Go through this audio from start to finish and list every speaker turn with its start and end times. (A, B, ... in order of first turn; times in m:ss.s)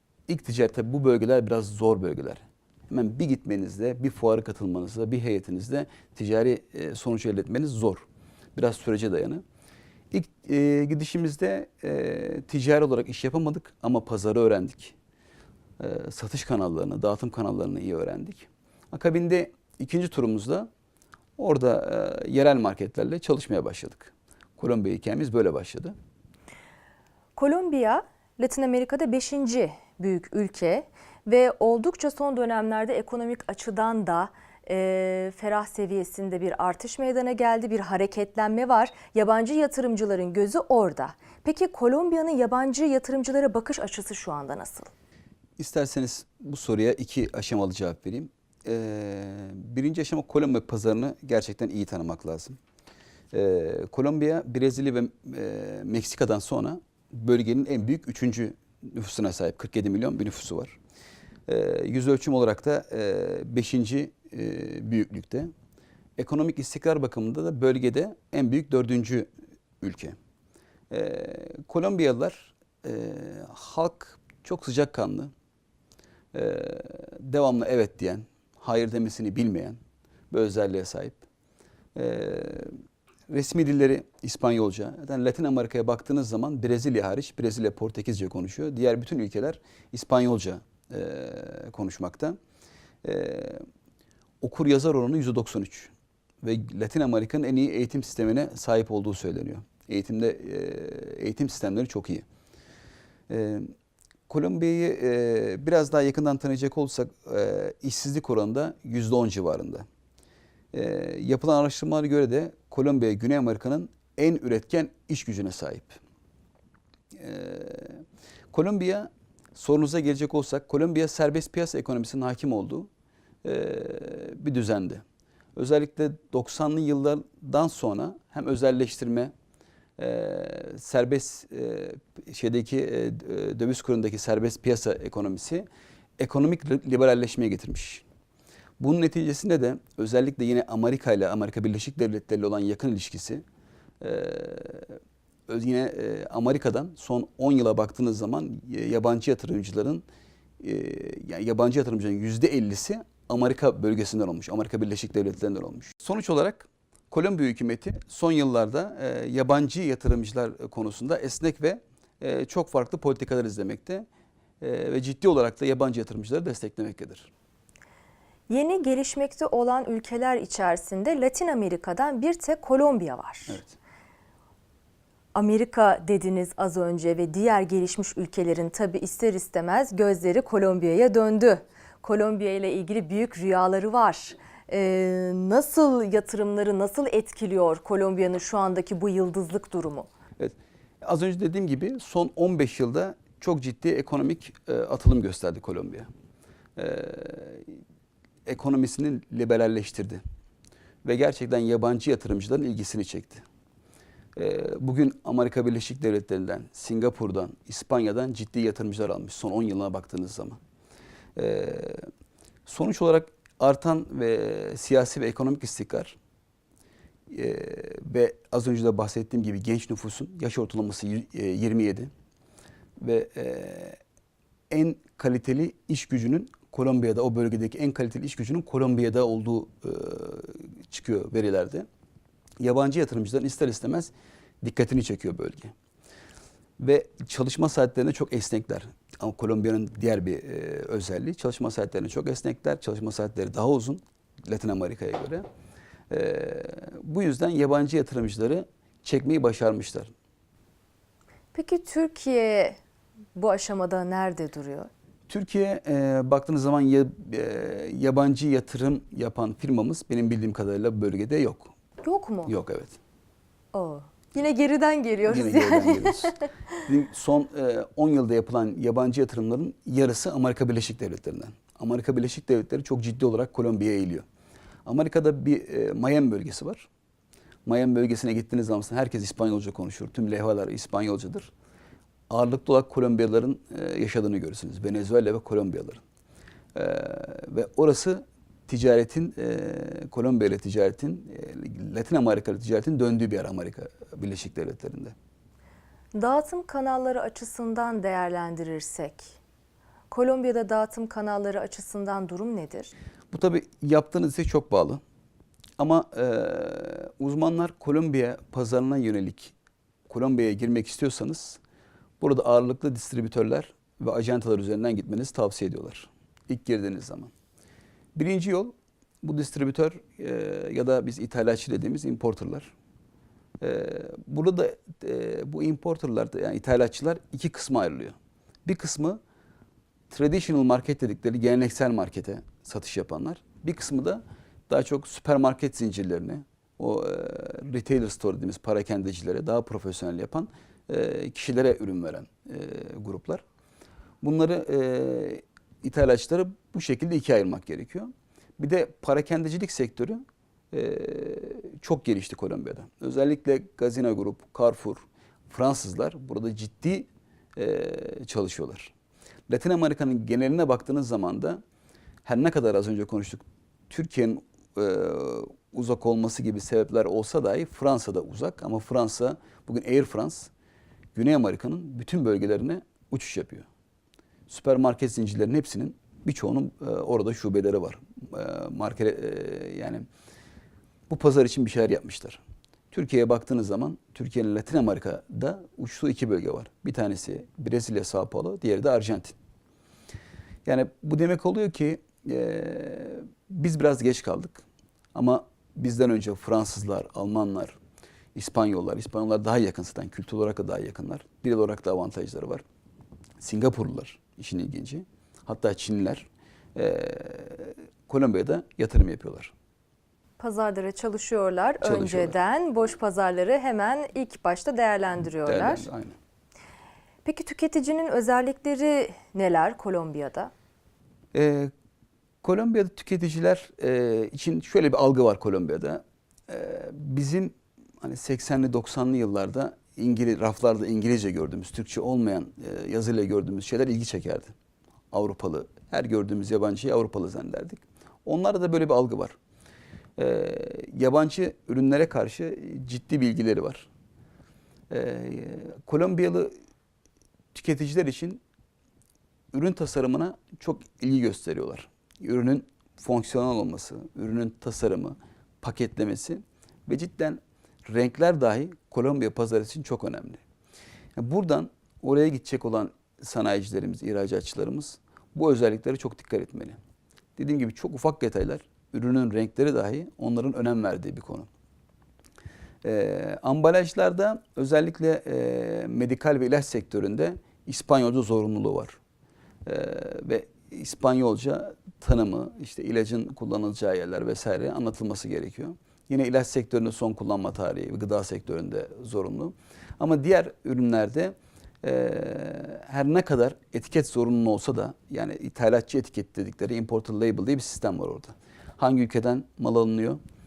0:00.3-0:09.4 A
0:10.1-0:15.0 A
0:15.8-0:20.7 A
0:21.4-0:25.9 A
0:27.4-0:44.9 B
0:45.6-0:52.6 A
0:53.3-1:00.8 A
1:01.5-1:05.5 A
1:06.2-1:09.3 A
1:09.8-1:10.2 A
1:10.9-1:15.3 A
1:16.3-1:19.8 A
1:20.3-1:21.2 A
1:21.9-1:22.7 A
1:23.3-1:32.4 A
1:33.0-1:33.6 A
1:34.4-1:42.2 A
1:43.3-1:43.7 A
1:44.3-1:49.8 A
1:50.7-1:56.0 A
1:57.1-2:02.9 A
2:03.4-2:05.0 A
2:05.6-2:09.3 A
2:10.0-2:15.6 A
2:16.2-2:18.0 A
2:18.8-2:23.4 A
2:24.0-2:30.0 A
2:30.6-2:44.0 A
2:44.6-2:47.3 A
2:48.5-2:53.6 B
2:53.5-2:53.8 A
2:55.3-3:10.1 B
3:10.4-3:16.1 A
3:16.8-3:17.8 A
3:18.4-3:20.2 A
3:21.0-3:23.4 A
3:24.4-3:30.6 A
3:31.4-3:32.1 A
3:32.6-3:36.2 A
3:37.3-3:42.1 A
3:43.0-3:44.0 A
3:44.7-3:51.9 A
3:52.6-3:55.7 A
3:56.8-4:05.4 A
4:06.1-4:10.1 A
4:11.5-4:12.8 B
4:13.4-4:14.9 B
4:15.3-4:21.7 A
4:22.0-4:22.5 B
4:22.5-4:23.0 A
4:23.7-4:26.4 B
4:25.3-4:34.2 A
4:34.8-4:36.9 A
4:37.6-4:41.5 A
4:42.3-4:46.0 A
4:46.7-4:55.1 A
4:56.1-4:59.4 B
5:00.1-5:02.9 B
5:03.3-5:05.0 A
5:05.8-5:09.5 A
5:10.1-5:11.6 A
5:12.2-5:17.3 A
5:18.1-5:22.7 A
5:23.6-5:29.2 A
5:30.1-5:43.4 A
5:44.2-5:50.2 A
5:50.7-5:58.9 A
5:59.5-6:01.6 A
6:02.2-6:10.5 A
6:11.1-6:13.7 A
6:14.5-6:20.0 A
6:21.1-6:29.4 A
6:30.6-6:37.8 A
6:38.3-6:42.6 A
6:43.4-6:49.5 A
6:50.4-6:55.9 B
6:51.8-6:52.3 A
6:55.4-6:56.2 A
6:57.2-7:00.5 B
7:01.3-7:01.7 A
7:02.4-7:14.5 A
7:15.1-7:19.4 A
7:20.2-7:23.9 A
7:24.9-7:26.5 A
7:27.5-7:28.4 A
7:29.5-7:40.4 A
7:41.2-7:46.8 A
7:47.4-7:51.5 A
7:52.8-7:59.0 A
7:59.6-8:20.2 A